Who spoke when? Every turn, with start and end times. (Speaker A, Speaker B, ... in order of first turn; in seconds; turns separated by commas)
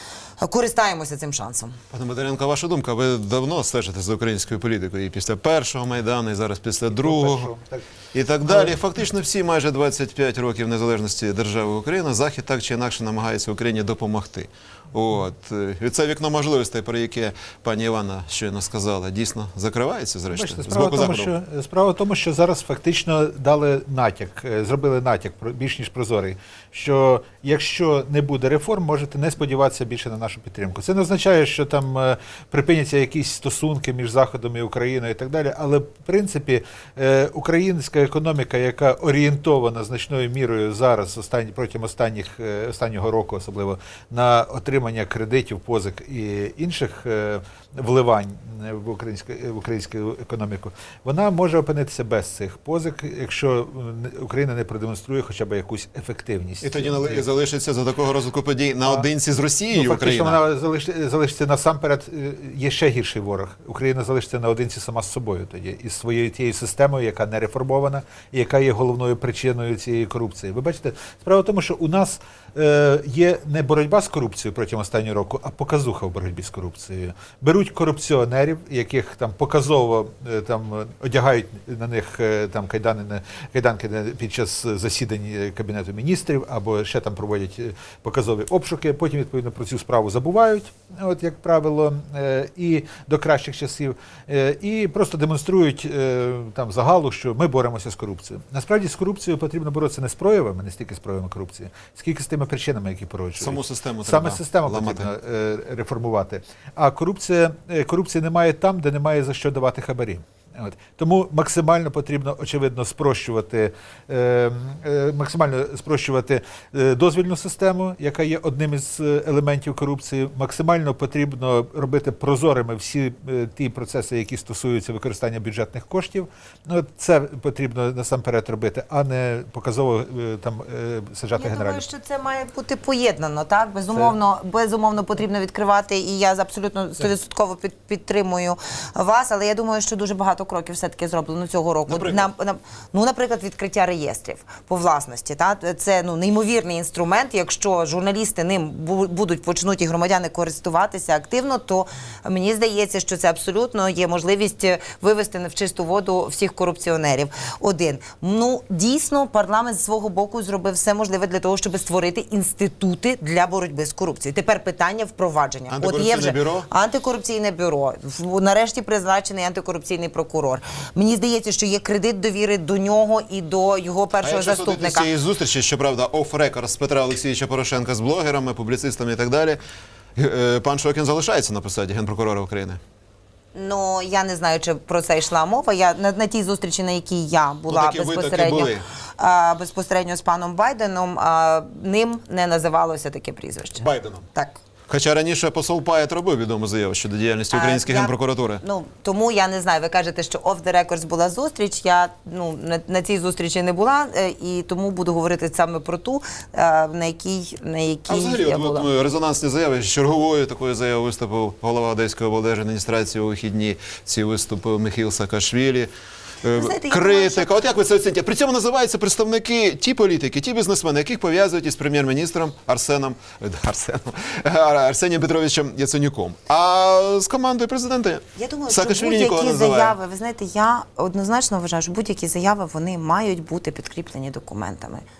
Speaker A: 0.4-1.8, Speaker B: 1.9-7.5, Speaker C: 6.9-7.9, Speaker B: 8.1-21.3, Speaker C: 8.5-8.8, Speaker C: 20.3-57.2, Speaker B: 56.6-60.4, Speaker C: 59.7-131.8, Speaker B: 103.4-105.1, Speaker A: 131.4-175.1, Speaker B: 141.9-142.2, Speaker B: 165.7-166.7, Speaker B: 174.2-179.6, Speaker B: 180.2-182.8, Speaker A: 183.5-194.6, Speaker B: 187.7-188.8, Speaker B: 193.8-194.3, Speaker B: 194.9-198.6, Speaker A: 197.5-208.9, Speaker B: 208.1-215.9, Speaker B: 216.4-230.0, Speaker A: 216.5-217.6, Speaker A: 228.4-235.0